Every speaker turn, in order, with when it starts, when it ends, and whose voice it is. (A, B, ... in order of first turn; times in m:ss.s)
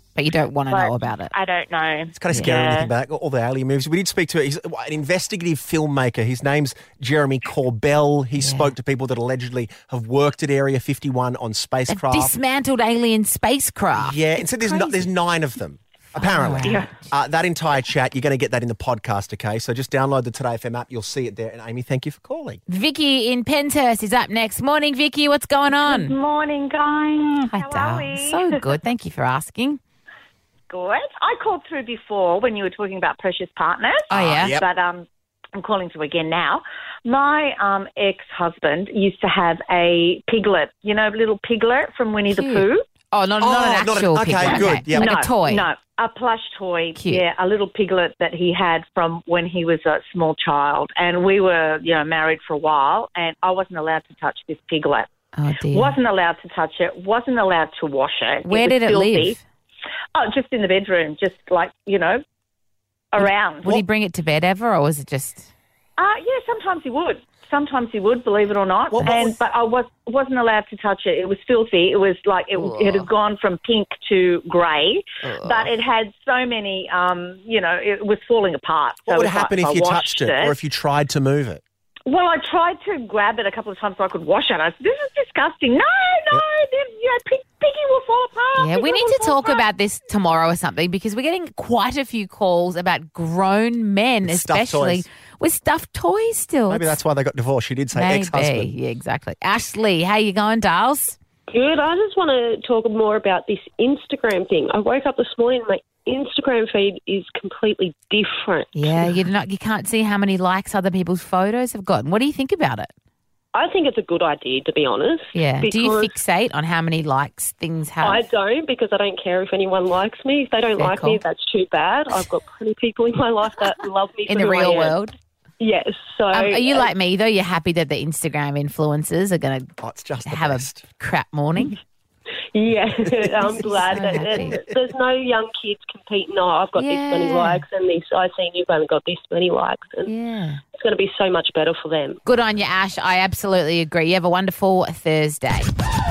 0:00.2-0:01.3 A
0:01.6-0:02.9 B
0:02.1-0:12.3 C
0:02.3-0:02.6 A
0:08.4-0:08.7 A
0:11.9-0:15.1 A
0:14.0-0:22.6 C
0:16.2-0:17.1 A
0:16.6-0:16.9 B
0:22.7-0:26.1 A
0:25.9-0:28.5 B
0:27.5-0:29.8 A
0:30.7-0:42.8 B
0:34.1-0:34.6 A
0:34.1-0:34.7 C
0:42.3-0:45.7 A
0:43.4-0:45.2 C
0:44.5-0:55.1 B
0:47.0-0:47.2 A
0:55.3-0:56.0 A
0:55.7-0:59.4 B
0:58.4-0:59.4 A
1:00.2-1:02.2 B
1:03.1-1:03.8 B
1:03.2-1:05.5 A
1:06.0-1:20.6 B
1:08.9-1:09.4 C
1:12.6-1:13.1 A
1:15.2-1:15.7 A
1:19.0-1:21.6 C
1:22.1-1:29.6 B
1:28.6-1:37.0 A
1:34.2-1:35.1 C
1:36.7-1:38.7 C
1:38.0-1:41.2 A
1:41.5-1:49.2 D
1:48.7-1:52.9 A
1:53.5-1:56.2 D
1:55.3-1:58.2 A
1:58.0-2:05.0 D
2:00.8-2:01.2 A
2:04.3-2:05.1 A
2:05.6-2:06.9 D
2:06.3-2:09.7 A
2:09.8-2:10.8 C
2:10.2-2:11.8 A
2:12.5-2:20.1 D
2:13.3-2:14.2 C
2:13.6-2:14.6 A
2:16.8-2:17.6 A
2:20.1-2:20.6 A
2:20.8-2:22.2 D
2:22.3-2:25.7 A